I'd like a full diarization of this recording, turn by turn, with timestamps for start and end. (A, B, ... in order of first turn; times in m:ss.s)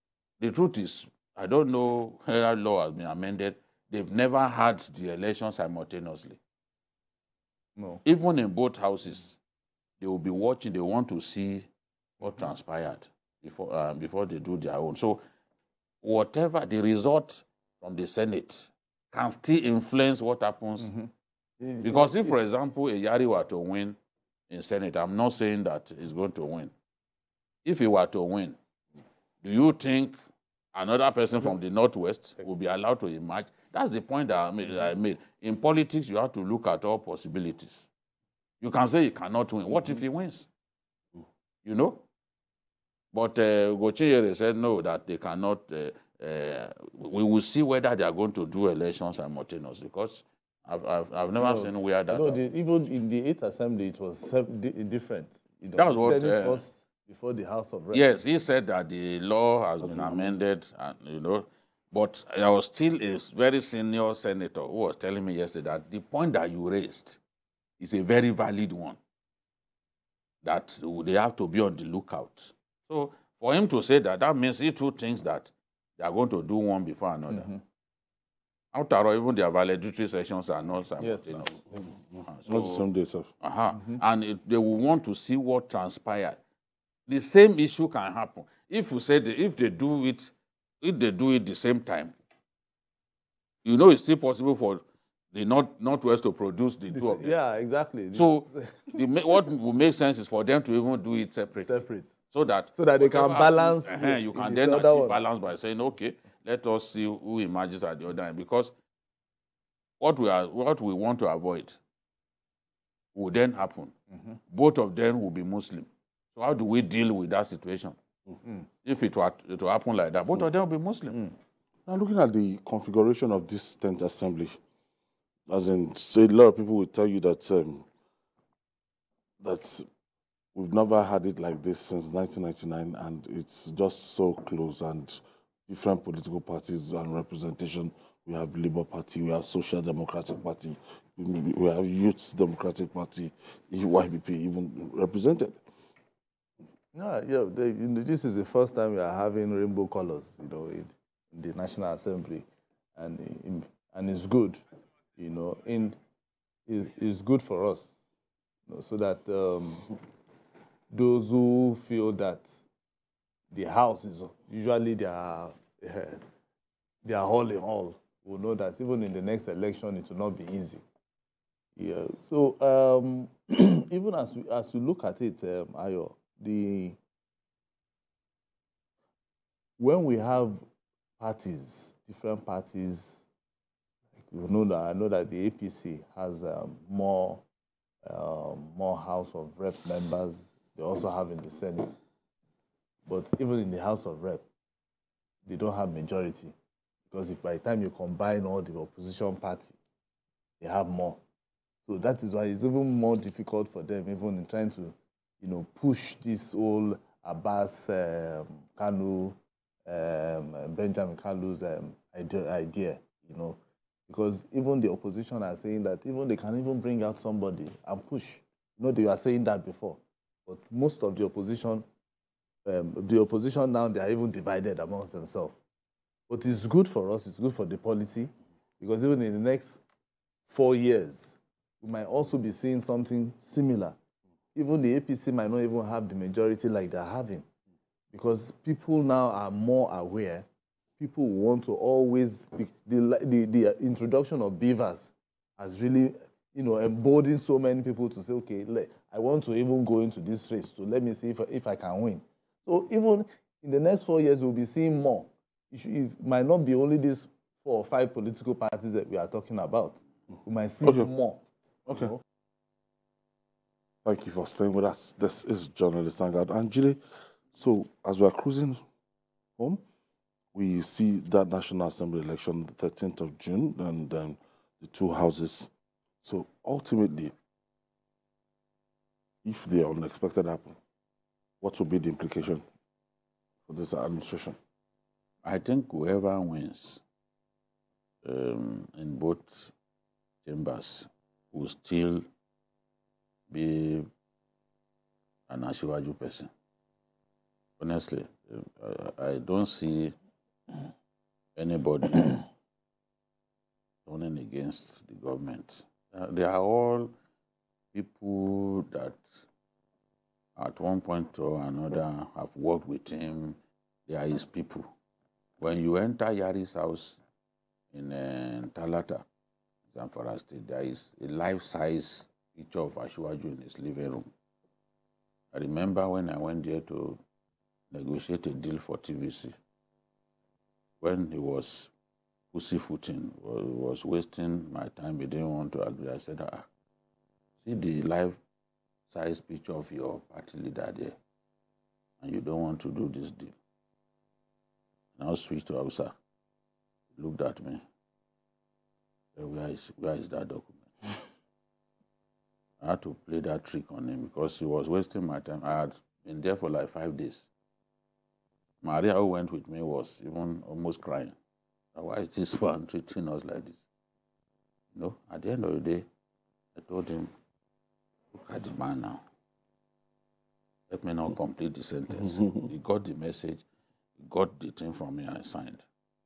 0:00.4-0:06.4 A
0:07.8-0:08.0 B
0:08.0-0:09.4 A
0:10.0-0:11.7 A
0:12.2-0:15.2 A
0:16.0-0:20.9 A
0:20.8-0:21.1 B
0:21.6-0:22.4 B
0:21.8-0:24.0 A
0:24.5-0:26.7 A
0:27.6-0:28.6 A
0:29.4-0:30.2 A
0:30.7-0:37.9 A
0:38.6-0:40.5 A
0:41.6-0:42.0 A
0:43.1-0:52.4 A
0:51.4-0:58.1 B
0:55.7-0:56.6 A
0:57.9-1:07.2 A
0:59.8-1:00.4 C
1:07.8-1:09.0 A
1:10.4-1:17.5 A
1:17.3-1:17.6 B
1:18.7-1:22.8 A
1:21.0-1:21.9 B
1:22.4-1:23.3 C
1:23.4-1:26.4 A
1:23.7-1:24.0 B
1:27.1-1:32.1 A
1:33.6-1:37.4 A
1:36.9-1:39.0 B
1:38.1-1:48.7 A
1:41.6-1:42.2 B
1:42.7-1:45.2 B
1:50.0-1:51.8 A
1:53.1-1:53.9 A
1:54.5-1:58.0 A
1:58.8-2:01.2 A
2:01.8-2:04.6 C
2:05.5-2:07.9 C
2:09.4-2:09.9 C
2:10.5-2:25.6 C
2:26.9-2:34.6 B
2:35.2-2:36.0 B
2:36.7-2:38.0 B
2:38.7-2:39.9 B
2:40.9-2:42.6 B
2:43.5-2:46.2 B
2:47.0-2:50.8 B
2:51.8-2:57.0 B
2:59.8-3:00.6 B
3:01.2-3:03.2 B
3:04.2-3:07.4 B
3:08.0-3:12.0 B
3:13.0-3:14.4 B
3:15.4-3:16.5 B
3:17.1-3:19.8 B
3:20.6-3:21.2 B
3:21.8-3:41.8 B
3:42.6-3:45.6 B
3:46.3-3:49.8 B
3:50.5-3:54.0 B
3:54.5-3:57.4 B
3:58.1-4:00.4 B
4:01.0-4:21.4 B
4:20.8-4:21.1 C
4:21.8-4:22.1 C
4:21.9-4:22.2 B
4:24.0-4:27.0 C
4:27.5-4:28.8 C
4:30.5-4:35.7 C
4:36.2-4:37.3 C
4:39.4-4:40.8 C
4:41.6-4:42.6 C
4:43.7-4:44.6 C
4:45.4-4:47.0 A
4:48.2-4:49.7 A
4:50.4-4:52.2 A
4:53.5-4:54.0 A
4:55.5-4:56.5 A
4:57.8-5:00.1 A
5:01.6-5:02.5 A
5:04.0-5:07.1 A
5:07.9-5:09.4 A
5:10.6-5:14.9 A
5:15.6-5:17.2 A
5:17.9-5:19.2 A
5:19.9-5:24.3 A
5:25.5-5:27.2 A
5:27.9-5:29.5 A
5:31.0-5:31.9 A
5:32.5-5:36.7 A
5:37.6-5:38.4 A
5:39.1-5:41.2 A
5:42.2-5:43.6 A
5:45.2-5:46.1 A
5:47.2-5:47.8 A
5:49.4-5:51.2 A
5:52.8-5:57.5 A
5:58.8-6:01.4 A
6:01.9-6:03.8 A
6:04.9-6:06.1 A
6:06.8-6:07.3 A
6:08.3-6:09.2 A
6:10.9-6:13.6 A
6:14.2-6:15.8 A